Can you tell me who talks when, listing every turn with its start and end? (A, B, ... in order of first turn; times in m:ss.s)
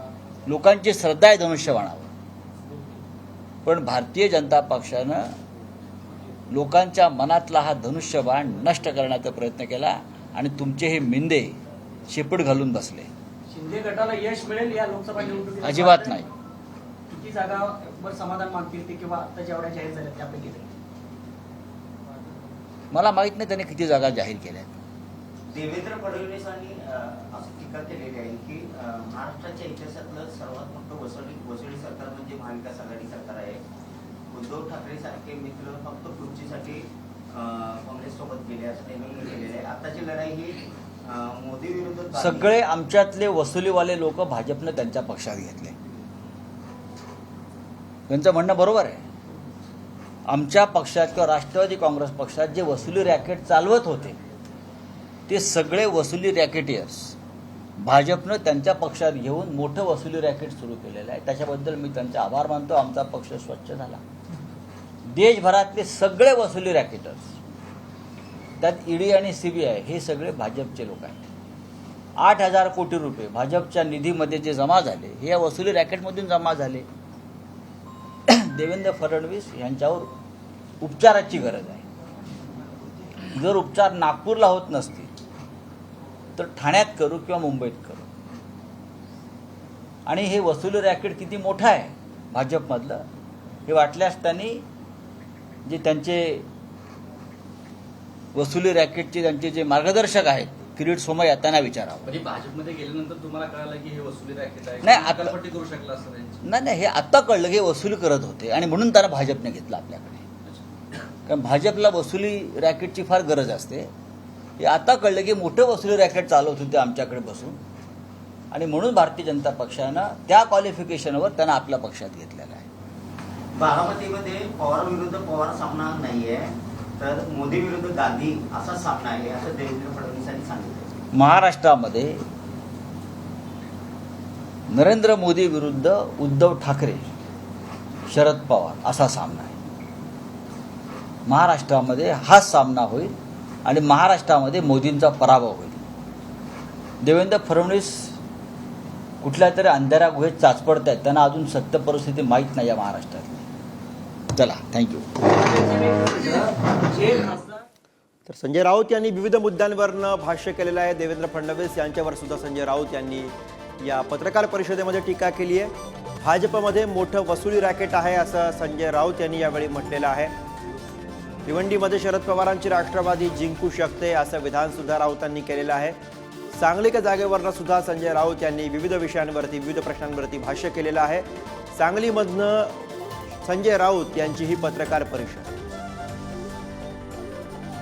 0:00.4-0:02.1 A
0:03.6-0:05.4 A
0:06.5-0:13.1 A
0:13.5-0:16.2 B
0:15.2-0:16.3 A
0:17.1-0:20.7 B
0:22.9-0:24.8 A
0:25.5-0:33.6 C
0:34.3-0:42.5 C
0:42.1-0:45.8 A
0:48.1-0:49.0 A
0:50.3-0:54.2 A
0:55.3-0:57.1 A
0:57.8-1:04.0 A
1:05.1-1:07.3 A
1:08.6-1:11.2 A
1:12.2-1:16.9 A
1:18.3-1:20.1 A
1:20.8-1:21.8 A
1:23.3-1:25.1 A
1:26.4-1:28.1 A
1:30.1-1:33.1 A
1:33.7-1:34.6 A
1:35.6-1:36.4 A
1:38.3-1:42.2 A
1:42.1-1:46.4 D
1:44.8-1:45.4 A
1:46.4-1:50.2 A
1:51.3-1:53.9 A
1:54.6-1:57.6 A
1:58.5-2:02.7 A
2:03.6-2:10.9 C
2:11.1-2:12.2 A
2:14.7-2:17.1 A
2:18.1-2:19.6 A
2:21.2-2:25.8 A
2:27.0-2:28.2 A
2:29.2-2:33.4 A
2:34.3-2:35.1 A
2:35.2-2:37.6 B
2:38.3-2:50.3 E
2:51.4-2:56.0 E
2:56.5-3:02.8 E
3:03.4-3:05.5 E